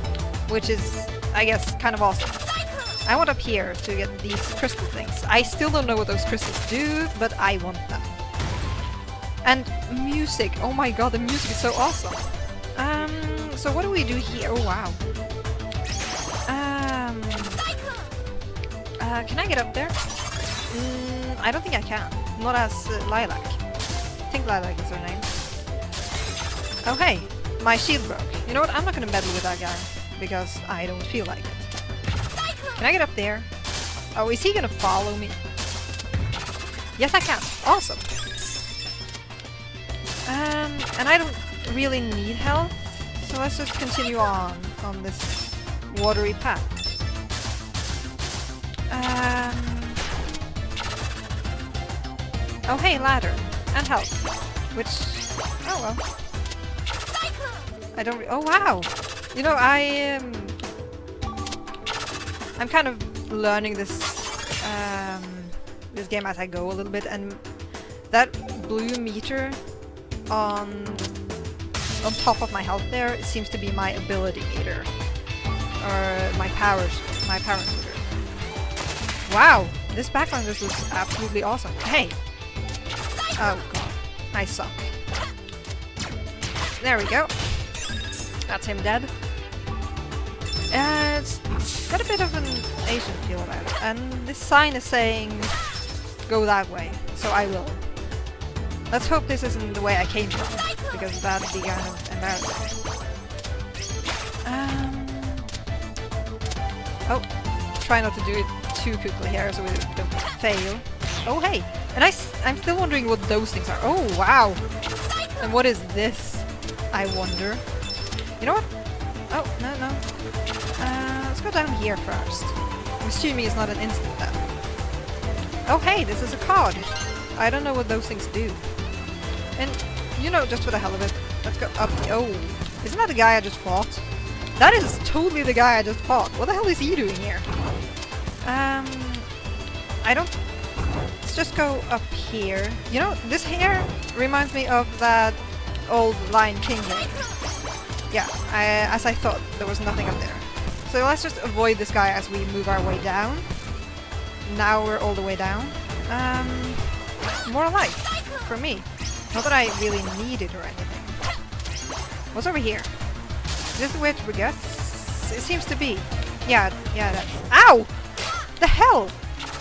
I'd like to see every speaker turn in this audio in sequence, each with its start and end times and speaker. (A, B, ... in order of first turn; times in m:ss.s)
0:00.4-0:02.4 A
0:03.0-0:08.1 A
0:09.4-0:15.0 A
0:16.5-0:17.6 A
0:19.0-0:20.0 A
0:20.7-0:23.6 A
0:24.3-0:25.3 A
0:26.8-0:31.7 A
0:32.7-0:33.5 A
0:34.1-0:35.4 A
0:37.0-0:38.1 A
0:40.2-0:46.7 A
0:48.9-0:50.0 A
0:52.6-0:56.0 A
0:57.9-1:00.6 A
1:02.6-1:07.4 A
1:08.1-1:09.6 A
1:10.3-1:11.1 A
1:12.0-1:14.9 A
1:15.8-1:18.0 A
1:19.2-1:22.2 A
1:23.4-1:24.9 A
1:26.8-1:27.4 A
1:28.5-1:29.1 A
1:30.7-1:35.5 A
1:36.2-1:37.9 A
1:38.9-1:42.8 A
1:44.4-1:45.5 A
1:47.8-1:54.6 A
1:55.4-1:57.6 A
1:58.4-1:58.7 A
1:59.3-2:00.0 A
2:00.8-2:04.4 A
2:05.6-2:08.6 A
2:09.6-2:14.0 A
2:14.6-2:17.5 A
2:18.4-2:19.3 A
2:20.0-2:20.4 A
2:21.2-2:27.3 A
2:28.1-2:33.5 A
2:34.4-2:36.9 A
2:37.4-2:41.2 A
2:42.3-2:42.9 A
2:43.7-2:48.0 A
2:48.6-2:49.2 A